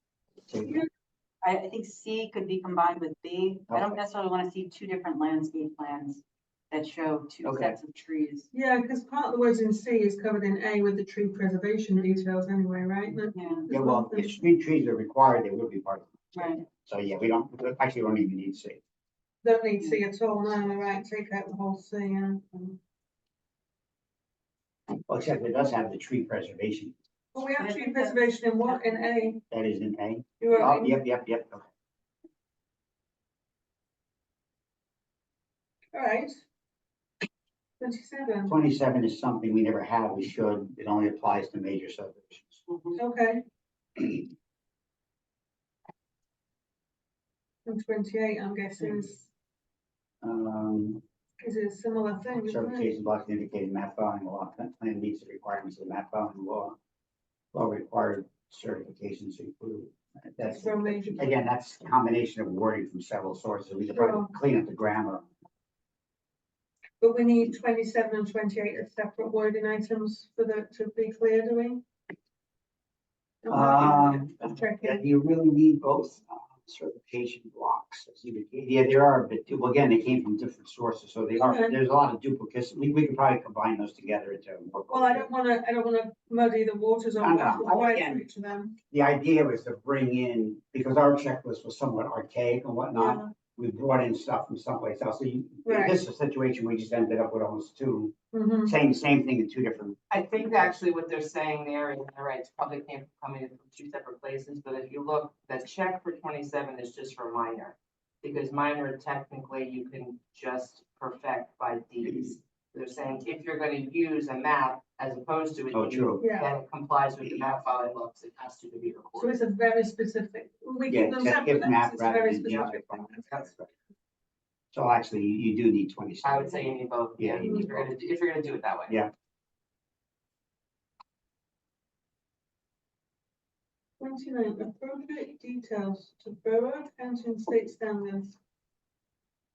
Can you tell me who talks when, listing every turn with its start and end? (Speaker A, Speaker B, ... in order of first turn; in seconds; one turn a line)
Speaker A: 0.5-0.8
Speaker B: 1.4-8.5
Speaker A: 3.7-4.0
Speaker A: 7.4-7.8
Speaker C: 8.5-14.4
Speaker B: 13.3-13.6
Speaker A: 13.7-18.8
Speaker B: 16.3-16.6
Speaker C: 19.4-22.8
Speaker B: 19.8-20.1
Speaker A: 25.1-26.9
Speaker C: 27.3-29.4
Speaker B: 27.6-29.1
Speaker A: 29.5-31.6
Speaker C: 30.4-30.9
Speaker C: 35.9-36.3
Speaker C: 37.8-38.5
Speaker A: 38.5-42.6
Speaker C: 42.9-43.4
Speaker C: 47.6-49.2
Speaker A: 50.2-51.0
Speaker C: 51.4-52.9
Speaker A: 52.4-56.8
Speaker A: 57.5-65.3
Speaker C: 60.4-61.4
Speaker C: 63.9-64.3
Speaker C: 67.0-71.8
Speaker C: 73.4-75.0
Speaker A: 73.5-85.3
Speaker C: 81.3-81.7
Speaker C: 84.9-88.8
Speaker A: 87.2-88.2
Speaker A: 88.9-100.7
Speaker C: 92.9-93.3
Speaker C: 95.6-96.0
Speaker C: 98.3-98.7
Speaker D: 100.1-119.4
Speaker A: 115.7-116.2
Speaker C: 116.2-116.5
Speaker C: 119.2-123.4
Speaker A: 120.9-123.7
Speaker A: 124.7-127.8
Speaker D: 126.2-129.0
Speaker C: 134.0-138.4